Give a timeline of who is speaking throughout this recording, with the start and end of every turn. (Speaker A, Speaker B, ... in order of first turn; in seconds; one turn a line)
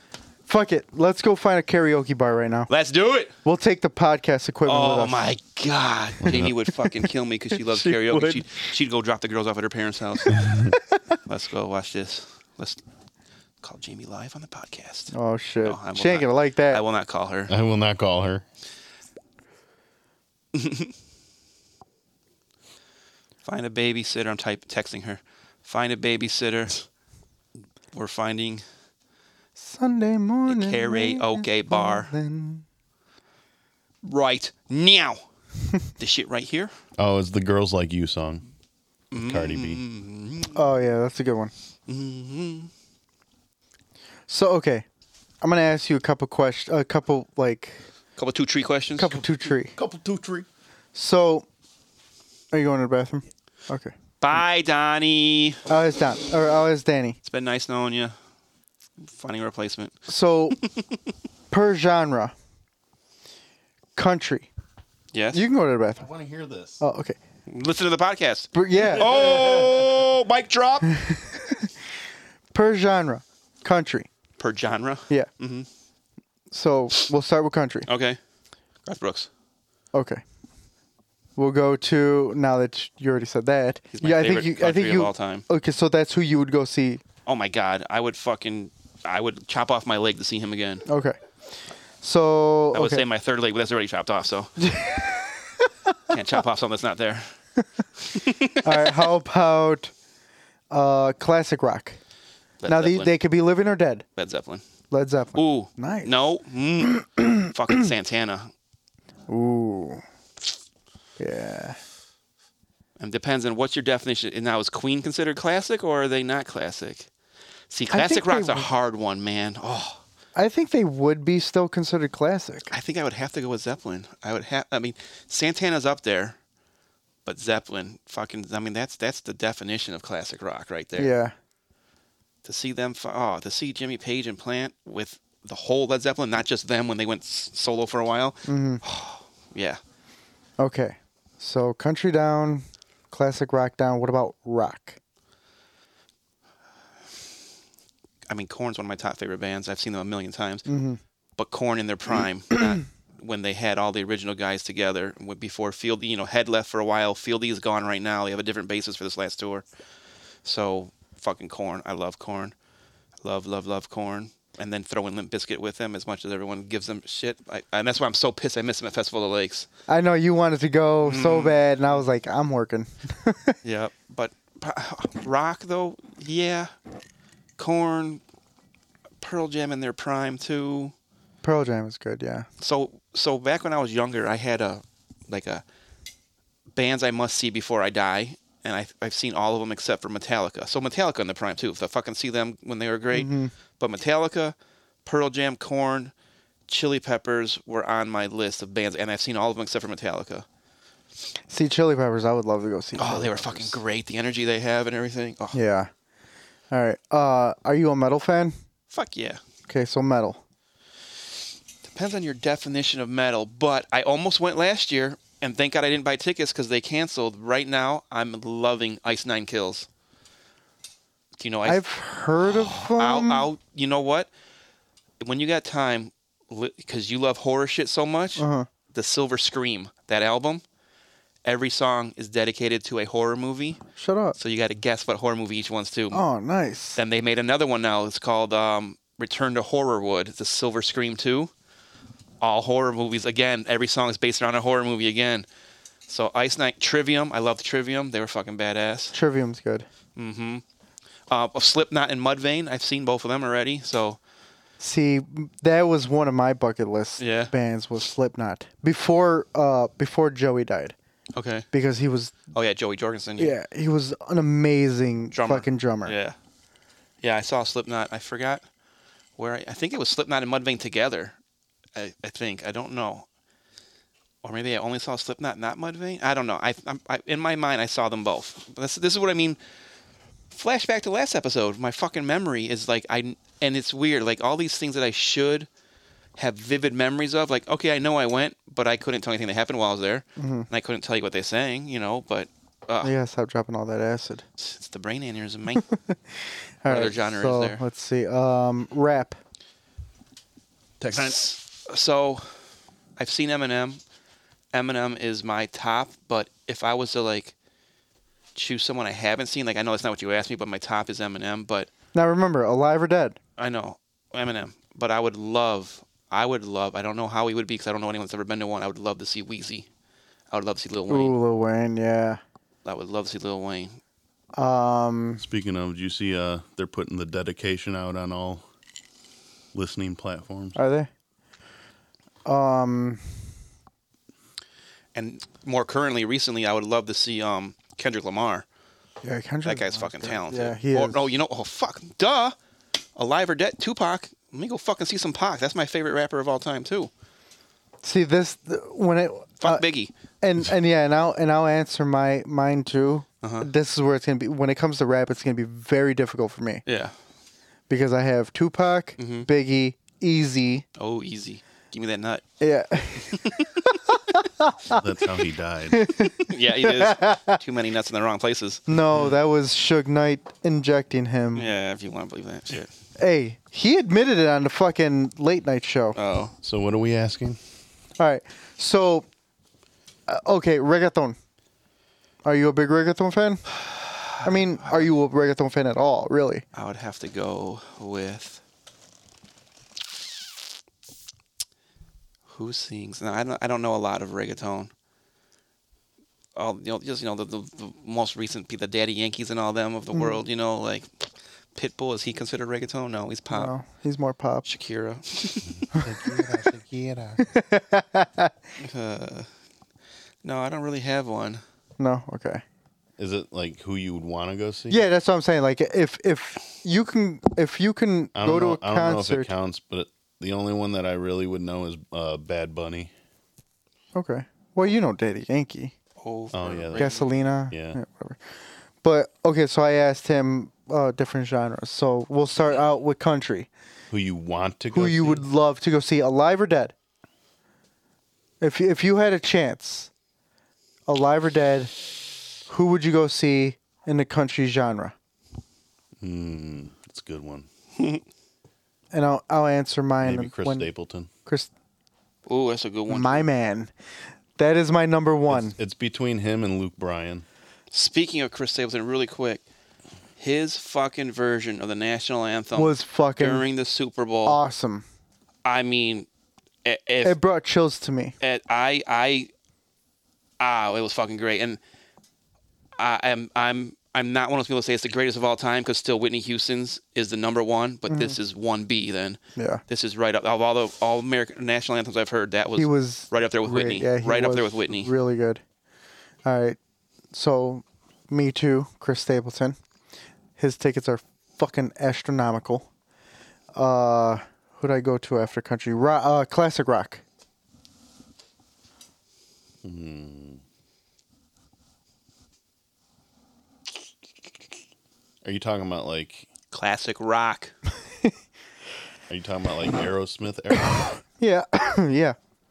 Speaker A: 0.5-2.7
Speaker B: 2.7-3.3
Speaker A: 3.4-5.2
Speaker B: 4.6-10.5
Speaker C: 6.2-6.5
Speaker A: 6.2-8.4
Speaker A: 10.2-10.5
Speaker C: 10.3-10.7
Speaker B: 11.2-12.8
Speaker B: 13.6-17.5
Speaker A: 15.1-16.8
Speaker C: 17.5-18.4
Speaker B: 20.5-20.9
Speaker B: 23.4-26.9
Speaker B: 27.9-28.6
Speaker A: 29.6-32.6
Speaker B: 30.5-32.1
Speaker B: 34.0-35.2
Speaker B: 36.0-36.7
Speaker C: 37.0-38.4
Speaker B: 39.1-40.6
Speaker C: 39.2-39.8
Speaker A: 40.5-41.5
Speaker B: 41.9-42.7
Speaker A: 44.3-44.8
Speaker A: 45.4-47.8
Speaker B: 48.1-49.3
Speaker A: 49.0-49.8
Speaker C: 49.8-50.4
Speaker A: 50.9-51.5
Speaker A: 52.5-53.9
Speaker B: 54.2-55.6
Speaker A: 55.7-57.2
Speaker B: 57.2-58.1
Speaker B: 59.0-60.9
Speaker A: 60.1-60.6
Speaker A: 61.5-62.3
Speaker A: 64.0-64.5
Speaker B: 65.1-65.4
Speaker A: 65.3-66.1
Speaker C: 66.0-66.8
Speaker A: 66.8-67.2
Speaker B: 67.5-70.9
Speaker A: 68.5-69.3
Speaker C: 69.0-70.0
Speaker A: 70.9-71.7
Speaker A: 72.5-74.1
Speaker B: 74.4-75.7
Speaker A: 76.5-77.9
Speaker B: 77.8-78.2
Speaker B: 78.8-79.3
Speaker A: 79.9-80.2
Speaker A: 81.3-87.0
Speaker B: 83.9-85.5
Speaker B: 87.2-90.8
Speaker A: 90.8-91.2
Speaker A: 92.0-93.0
Speaker B: 92.7-94.6
Speaker A: 94.6-95.9
Speaker B: 96.1-97.3
Speaker B: 98.0-99.0
Speaker A: 98.6-99.9
Speaker A: 100.7-102.0
Speaker B: 102.6-103.1
Speaker A: 102.7-104.0
Speaker B: 104.2-104.6
Speaker A: 104.9-106.1
Speaker B: 105.3-108.5
Speaker A: 107.2-107.4
Speaker A: 109.3-110.0
Speaker A: 111.2-111.8
Speaker B: 113.0-117.1
Speaker B: 117.7-120.0
Speaker A: 117.9-118.7
Speaker A: 120.3-122.7
Speaker B: 122.7-126.4
Speaker B: 127.2-131.1
Speaker A: 130.9-131.3
Speaker B: 132.4-139.8
Speaker A: 138.4-138.8
Speaker A: 140.6-145.0
Speaker B: 148.3-150.6
Speaker A: 150.7-151.0
Speaker B: 151.4-159.6
Speaker B: 160.4-162.5
Speaker B: 163.2-169.7
Speaker A: 169.9-173.6
Speaker B: 171.0-171.6
Speaker B: 173.6-176.7
Speaker B: 177.6-178.2
Speaker B: 179.2-180.9
Speaker A: 181.4-182.4
Speaker B: 182.6-185.6
Speaker B: 186.7-196.1
Speaker A: 193.1-193.5
Speaker B: 196.7-200.4
Speaker A: 201.5-203.8
Speaker B: 202.9-205.6
Speaker A: 205.5-205.9
Speaker A: 206.7-208.5
Speaker B: 208.9-209.4
Speaker A: 209.7-210.4
Speaker B: 211.8-219.9
Speaker B: 221.4-221.8
Speaker A: 221.7-223.5
Speaker B: 222.4-224.3
Speaker B: 225.2-230.6
Speaker A: 228.4-228.7
Speaker B: 231.4-233.8
Speaker A: 233.9-234.4
Speaker B: 234.3-236.2
Speaker A: 236.1-237.0
Speaker B: 236.9-241.5
Speaker B: 242.4-245.4
Speaker B: 246.1-249.1
Speaker A: 249.1-249.8
Speaker B: 250.2-250.6
Speaker B: 251.3-254.2
Speaker A: 254.8-260.9
Speaker B: 257.2-257.5
Speaker B: 261.4-261.6
Speaker A: 261.7-262.3
Speaker B: 262.5-263.5
Speaker A: 263.4-266.2
Speaker B: 265.3-266.4
Speaker B: 267.2-268.6
Speaker B: 269.4-271.4
Speaker B: 271.9-273.2
Speaker B: 274.4-279.6
Speaker B: 280.5-285.7
Speaker B: 286.4-293.1
Speaker A: 290.4-290.7
Speaker A: 293.0-294.4
Speaker B: 294.6-295.9
Speaker A: 295.7-299.4
Speaker B: 296.9-297.8
Speaker C: 301.0-301.4
Speaker B: 301.1-302.6
Speaker B: 303.2-304.0
Speaker B: 304.7-307.5
Speaker B: 308.5-311.9
Speaker A: 312.1-313.4
Speaker B: 313.6-319.9
Speaker B: 320.5-321.4
Speaker A: 321.1-322.4
Speaker B: 322.8-324.0
Speaker A: 324.5-325.4
Speaker C: 325.4-328.6
Speaker C: 329.7-330.8
Speaker A: 330.7-331.1
Speaker A: 332.4-333.3
Speaker B: 335.1-338.6
Speaker A: 339.2-341.3
Speaker B: 339.6-342.6
Speaker B: 343.1-347.1
Speaker A: 348.0-349.9
Speaker B: 349.6-350.1
Speaker A: 350.4-356.8
Speaker B: 353.4-353.7
Speaker B: 356.9-357.1
Speaker A: 357.9-360.8
Speaker B: 359.2-359.5
Speaker B: 360.9-362.4
Speaker A: 362.6-367.6
Speaker B: 363.3-363.8
Speaker C: 364.9-366.0
Speaker B: 366.3-369.3
Speaker A: 368.9-371.7
Speaker B: 371.5-372.9
Speaker A: 373.2-376.2
Speaker B: 376.1-376.5
Speaker C: 376.6-377.6
Speaker A: 378.2-379.2
Speaker A: 380.3-381.4
Speaker A: 382.4-383.6
Speaker B: 383.7-385.0
Speaker A: 384.4-386.6
Speaker B: 386.7-388.6
Speaker B: 392.5-394.9
Speaker B: 396.6-401.1
Speaker A: 400.1-400.4
Speaker B: 401.7-403.7
Speaker A: 403.5-404.6
Speaker B: 404.6-405.8
Speaker C: 405.7-407.4
Speaker A: 405.9-406.6
Speaker A: 407.4-408.5
Speaker B: 408.8-409.5
Speaker B: 410.4-411.6
Speaker A: 412.0-412.6
Speaker C: 413.2-415.0
Speaker A: 414.9-419.5
Speaker C: 418.3-423.1
Speaker A: 424.1-425.9
Speaker B: 426.2-427.3
Speaker C: 426.5-427.1
Speaker A: 426.9-428.4
Speaker C: 427.7-428.0
Speaker A: 429.0-433.7
Speaker C: 434.1-435.4
Speaker A: 434.9-436.9
Speaker A: 438.6-440.1
Speaker A: 441.1-441.9
Speaker A: 442.6-445.1
Speaker C: 446.2-447.7
Speaker A: 449.1-450.9
Speaker C: 450.2-451.3
Speaker B: 452.4-453.4
Speaker A: 453.1-453.9
Speaker A: 454.6-455.8
Speaker C: 455.5-457.4
Speaker B: 457.9-459.6
Speaker B: 460.4-464.6
Speaker A: 462.7-463.7
Speaker A: 464.4-465.0
Speaker B: 465.6-466.3
Speaker B: 466.8-467.4
Speaker A: 467.2-468.3
Speaker B: 468.4-469.5
Speaker B: 470.6-471.8
Speaker B: 473.0-485.1
Speaker A: 478.1-478.4
Speaker A: 479.6-479.8
Speaker A: 482.8-485.6
Speaker A: 486.4-486.8
Speaker A: 487.3-489.8
Speaker A: 490.6-492.9
Speaker A: 493.7-497.2
Speaker C: 499.8-500.6
Speaker C: 505.4-506.5
Speaker B: 506.7-507.7
Speaker C: 509.3-511.1
Speaker A: 510.8-512.4